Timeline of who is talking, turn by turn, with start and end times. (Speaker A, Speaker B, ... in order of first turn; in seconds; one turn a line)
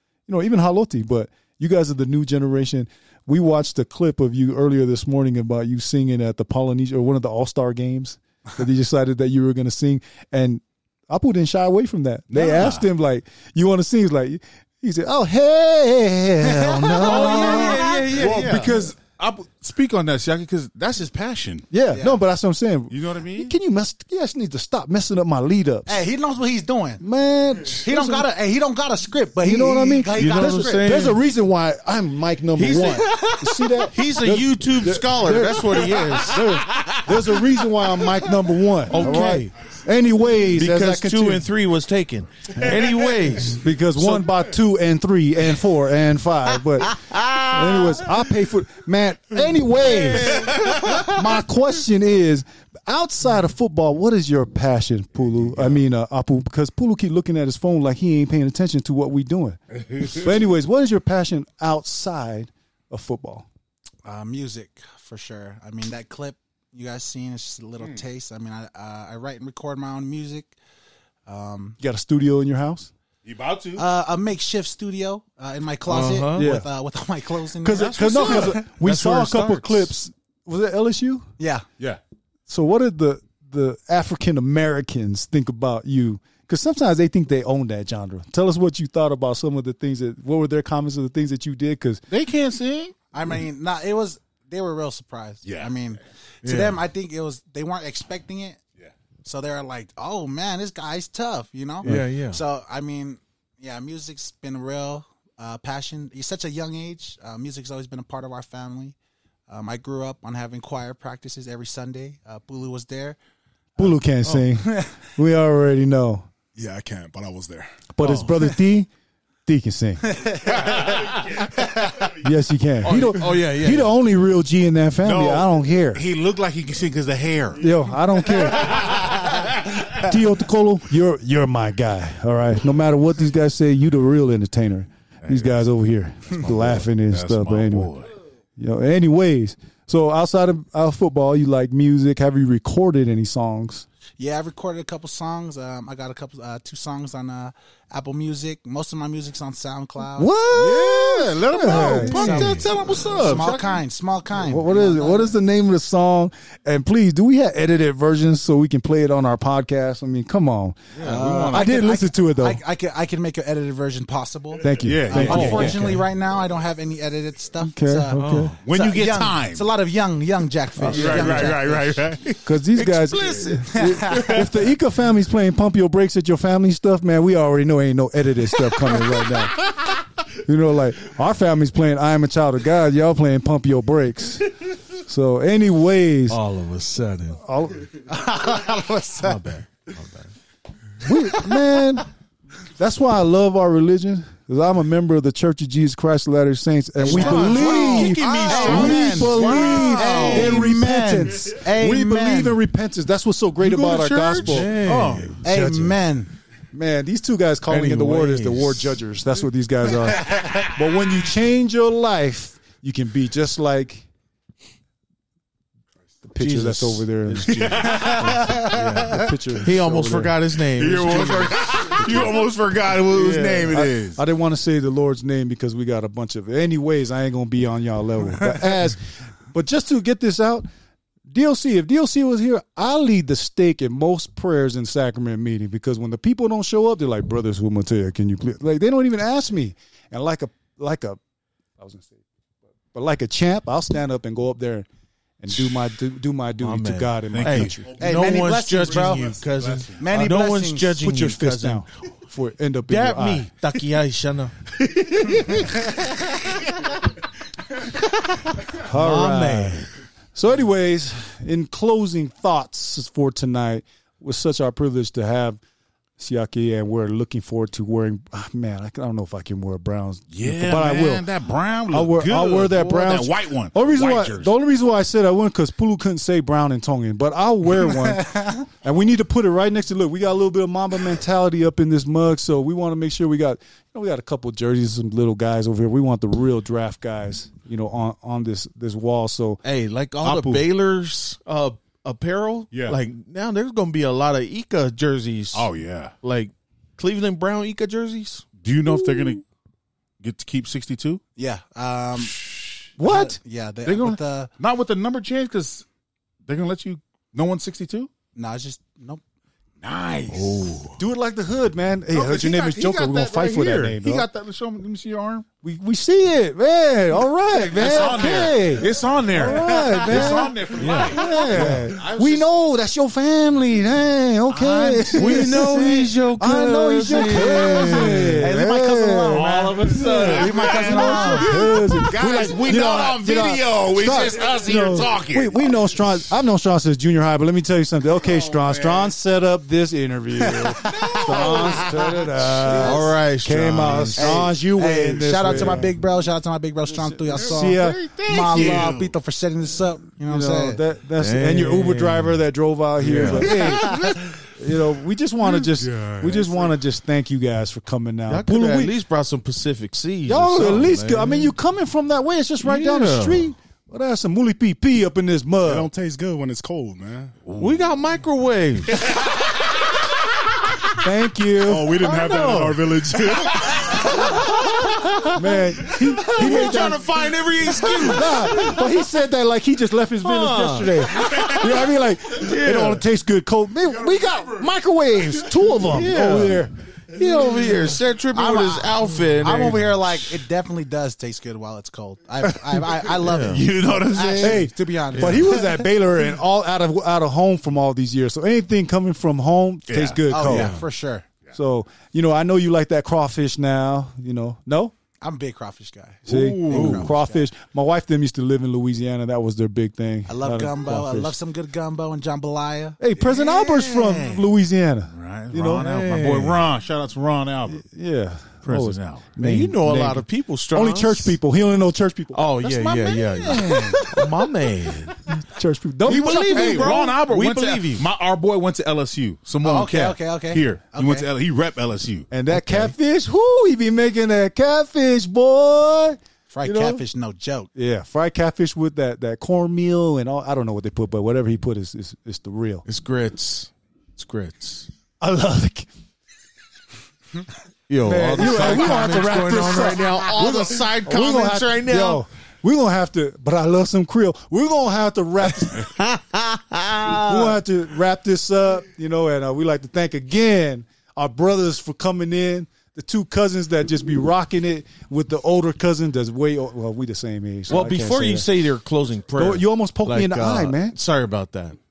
Speaker A: 0.3-17.8
Speaker B: 12.3-12.8
Speaker C: 16.4-18.0
Speaker D: 17.0-18.7
Speaker B: 17.2-21.7
Speaker A: 18.5-18.9
Speaker A: 21.7-25.9
Speaker C: 21.9-22.2
Speaker B: 22.9-23.5
Speaker C: 25.9-27.0
Speaker A: 27.0-28.3
Speaker C: 27.8-30.9
Speaker A: 29.4-41.5
Speaker D: 30.1-31.2
Speaker D: 32.5-33.3
Speaker D: 33.9-37.0
Speaker D: 38.9-39.5
Speaker D: 40.5-44.2
Speaker A: 43.4-63.5
Speaker D: 46.9-47.8
Speaker D: 50.0-51.1
Speaker B: 55.5-55.8
Speaker C: 64.0-70.5
Speaker C: 71.2-71.8
Speaker A: 71.8-72.9
Speaker B: 73.2-73.8
Speaker C: 73.8-78.7
Speaker D: 75.9-76.5
Speaker A: 76.3-76.7
Speaker A: 77.6-81.3
Speaker B: 77.7-78.6
Speaker D: 78.7-79.9
Speaker C: 81.4-81.7
Speaker A: 82.5-92.0
Speaker B: 92.1-93.0
Speaker C: 93.1-98.6
Speaker B: 95.4-95.9
Speaker D: 96.4-96.8
Speaker C: 99.2-109.0
Speaker D: 101.8-102.4
Speaker C: 109.5-113.2
Speaker A: 113.8-116.3
Speaker C: 114.6-115.0
Speaker E: 116.5-117.8
Speaker A: 117.9-118.9
Speaker D: 118.0-118.4
Speaker A: 119.5-120.2
Speaker C: 120.1-122.1
Speaker B: 120.4-121.5
Speaker A: 122.2-126.0
Speaker D: 122.8-123.9
Speaker B: 125.0-130.0
Speaker A: 127.6-129.1
Speaker A: 129.9-137.9
Speaker B: 135.2-135.6
Speaker B: 136.3-138.1
Speaker A: 138.6-143.8
Speaker C: 144.2-150.3
Speaker A: 150.1-152.6
Speaker B: 150.5-153.8
Speaker C: 151.6-155.3
Speaker D: 152.1-152.6
Speaker A: 154.4-160.8
Speaker D: 160.9-161.3
Speaker B: 161.0-161.7
Speaker C: 161.0-172.0
Speaker A: 161.5-162.6
Speaker A: 164.6-165.9
Speaker B: 164.8-165.9
Speaker D: 165.2-166.0
Speaker A: 167.6-168.6
Speaker D: 168.2-168.6
Speaker B: 168.6-169.7
Speaker B: 170.8-172.5
Speaker D: 170.8-171.5
Speaker A: 170.9-171.2
Speaker A: 172.4-186.4
Speaker D: 172.7-174.3
Speaker C: 173.7-174.4
Speaker D: 186.3-187.4
Speaker A: 187.3-187.9
Speaker C: 188.1-189.4
Speaker D: 189.2-190.3
Speaker A: 191.0-192.1
Speaker A: 192.8-204.8
Speaker C: 197.0-202.6
Speaker D: 197.1-200.6
Speaker B: 197.1-200.7
Speaker B: 203.6-205.4
Speaker D: 204.3-205.4
Speaker A: 205.4-206.0
Speaker C: 205.4-206.3
Speaker A: 206.7-214.1
Speaker D: 207.7-209.0
Speaker C: 210.3-210.6
Speaker A: 216.2-220.3
Speaker D: 216.4-222.3
Speaker B: 217.5-218.3
Speaker C: 217.9-218.6
Speaker B: 220.8-224.2
Speaker A: 222.0-222.4
Speaker D: 223.1-223.8
Speaker A: 223.7-230.7
Speaker A: 231.3-241.2
Speaker A: 241.8-242.2
Speaker A: 242.9-244.9
Speaker A: 245.4-247.9
Speaker D: 246.6-251.8
Speaker B: 247.3-250.1
Speaker C: 248.0-249.3
Speaker C: 250.0-251.0
Speaker A: 250.9-253.5
Speaker D: 252.9-254.6
Speaker A: 254.9-255.7
Speaker A: 258.8-265.6
Speaker D: 258.8-259.9
Speaker A: 266.2-271.3
Speaker B: 270.3-274.5
Speaker A: 271.9-289.6
Speaker C: 278.3-278.6
Speaker D: 289.6-295.7
Speaker B: 290.3-290.6
Speaker B: 292.7-293.0
Speaker B: 295.5-296.1
Speaker D: 296.2-298.5
Speaker B: 298.6-299.4
Speaker A: 299.0-299.3
Speaker B: 300.2-301.2
Speaker C: 301.4-302.4
Speaker B: 302.2-302.9
Speaker A: 303.0-303.4
Speaker C: 303.0-304.5
Speaker B: 303.9-305.8
Speaker B: 306.4-308.1
Speaker C: 308.4-309.2
Speaker B: 309.8-310.8
Speaker D: 310.3-311.0
Speaker A: 311.0-314.3
Speaker B: 312.1-315.5
Speaker A: 315.6-329.5
Speaker B: 317.7-322.5
Speaker C: 319.6-319.9
Speaker D: 320.8-321.4
Speaker B: 324.5-325.5
Speaker D: 325.1-328.5
Speaker C: 328.4-331.7
Speaker B: 329.3-335.8
Speaker D: 330.0-330.5
Speaker A: 330.0-345.9
Speaker B: 338.2-339.1
Speaker C: 340.5-342.1
Speaker B: 340.9-343.0
Speaker D: 342.8-344.4
Speaker C: 344.2-350.8
Speaker A: 346.9-348.9
Speaker B: 347.3-349.1
Speaker A: 350.2-358.9
Speaker D: 351.2-352.4
Speaker D: 353.0-353.7
Speaker B: 353.7-354.2
Speaker B: 355.4-356.7
Speaker D: 358.3-361.5
Speaker A: 360.3-365.9
Speaker D: 362.6-363.5
Speaker E: 365.6-367.3
Speaker B: 367.4-367.9
Speaker D: 367.6-369.0
Speaker B: 368.9-370.1
Speaker A: 371.0-373.0
Speaker E: 371.6-373.9
Speaker D: 373.9-375.3
Speaker A: 373.9-374.5
Speaker A: 375.3-377.1
Speaker D: 375.9-378.8
Speaker A: 377.8-386.7
Speaker D: 380.2-381.7
Speaker D: 382.3-383.0
Speaker D: 385.8-390.0
Speaker C: 388.3-395.9
Speaker B: 389.6-389.9
Speaker B: 392.7-394.6
Speaker D: 393.2-393.6
Speaker A: 394.4-400.7
Speaker D: 395.1-395.5
Speaker B: 399.9-400.7
Speaker C: 400.3-401.3
Speaker D: 400.5-400.8
Speaker A: 401.5-404.9
Speaker C: 405.2-407.5
Speaker A: 406.3-411.3
Speaker B: 406.3-407.0
Speaker D: 406.7-407.1
Speaker C: 410.3-413.0
Speaker A: 413.0-415.9
Speaker B: 413.2-414.4
Speaker B: 415.1-417.8
Speaker D: 415.7-416.7
Speaker A: 417.7-422.5
Speaker B: 418.6-419.3
Speaker D: 419.4-421.4
Speaker D: 422.3-425.2
Speaker C: 422.6-424.0
Speaker A: 423.4-424.4
Speaker B: 423.5-423.9
Speaker A: 425.2-427.0
Speaker D: 426.1-428.1
Speaker B: 426.1-432.3
Speaker C: 429.6-431.3
Speaker A: 432.3-437.0
Speaker D: 432.5-432.9
Speaker C: 436.5-437.7
Speaker A: 437.7-442.9
Speaker D: 442.9-444.9
Speaker A: 445.2-445.9
Speaker D: 447.9-452.2
Speaker A: 448.0-455.9
Speaker D: 456.9-457.3
Speaker A: 457.1-468.5
Speaker D: 467.7-471.8
Speaker A: 469.4-470.9